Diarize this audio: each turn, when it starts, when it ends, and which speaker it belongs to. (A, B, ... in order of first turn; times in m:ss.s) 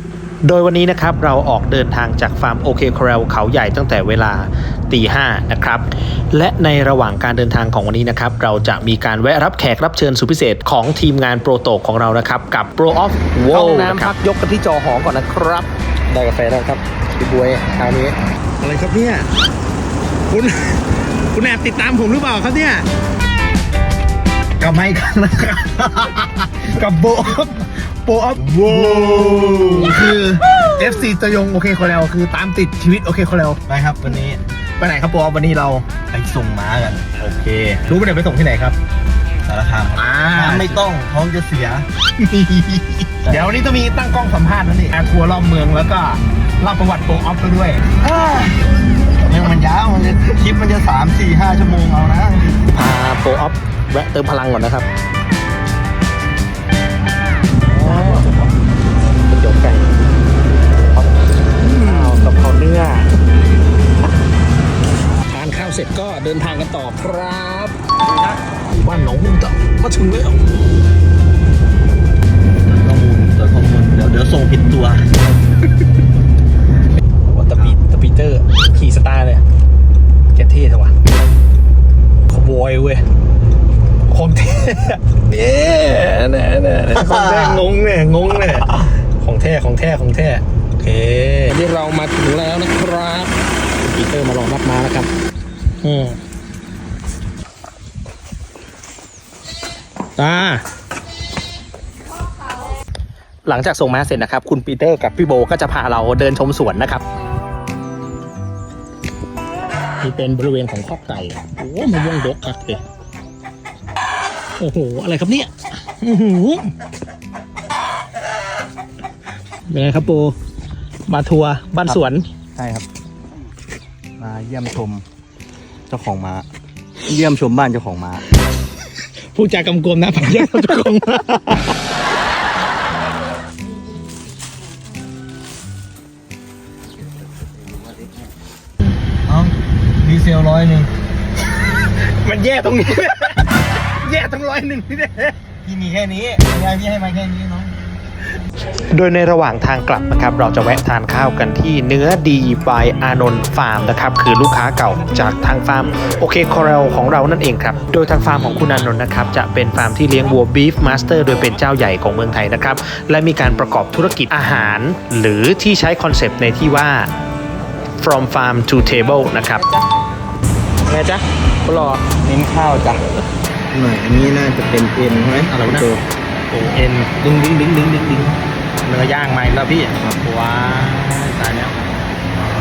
0:00.4-0:14.2 A
0:13.4-0:19.3 B
0:20.3-0:22.9 B
0:24.6-0:33.6 B
0:28.4-0:30.1 C
0:33.7-0:34.4 C
0:34.8-0:35.9 B
0:36.1-0:37.1 C
0:37.2-0:38.8 B
0:39.5-0:41.9 C
0:40.0-0:40.8 B
0:42.3-0:47.8 B
0:48.0-0:48.6 C
0:49.2-0:52.6 C
0:52.7-0:54.9 B
0:57.7-0:58.5 B
0:59.3-0:59.9 B
1:01.6-1:03.1 B
1:05.3-1:07.8 B
1:08.7-1:10.4 B
1:12.7-1:15.2 C
1:17.2-1:19.4 B
1:20.3-1:20.9 B
1:22.3-1:23.0 B
1:24.1-1:35.1 B
1:27.0-1:27.6 C
1:35.8-1:36.2 B
1:40.2-1:40.6 B
1:43.5-1:47.0 B
1:50.0-1:52.8 B
1:54.6-1:56.7 B
1:59.7-2:00.4 B
2:01.1-2:02.3 B
2:02.6-2:02.9 C
2:04.2-2:05.0 C
2:05.9-2:06.5 C
2:07.1-2:08.2 C
2:09.3-2:11.7 B
2:19.3-2:20.9 C
2:21.6-2:25.4 B
2:25.6-2:27.8 C
2:28.7-2:47.1 A
2:48.0-2:49.7 A
2:50.9-2:52.0 B
2:52.2-2:53.0 C
2:53.7-2:56.0 C
2:55.5-2:55.9 B
2:56.5-3:01.7 B